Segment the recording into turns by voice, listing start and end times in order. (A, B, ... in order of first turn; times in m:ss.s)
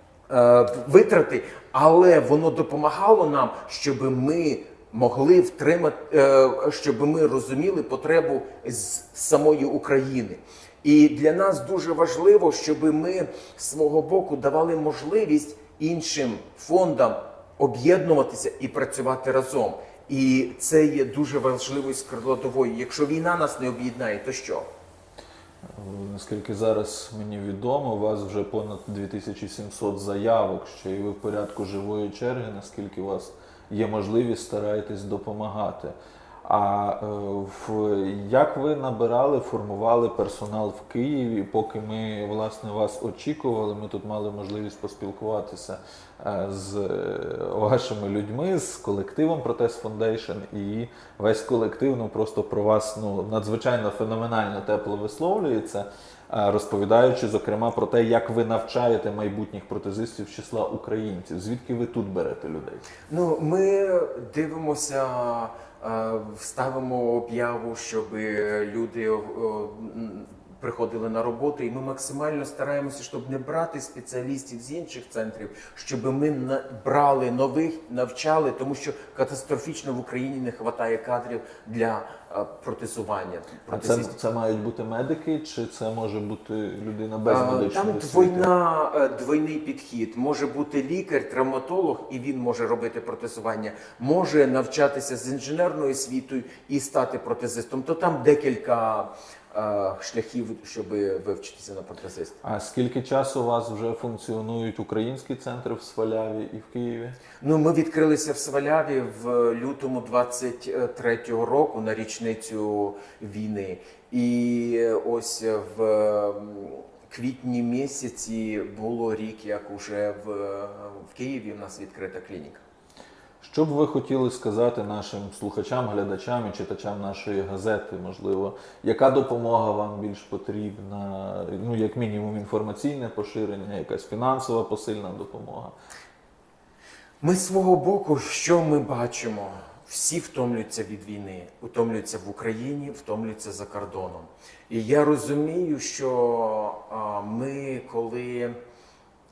0:00.3-0:24.7 A
0:25.8-1:02.8 B
1:03.1-1:24.1 A
1:23.7-1:28.5 B
1:27.2-1:42.4 A
1:42.4-1:47.2 B
1:47.4-2:02.6 A
2:03.4-2:15.7 B
2:17.2-2:28.6 A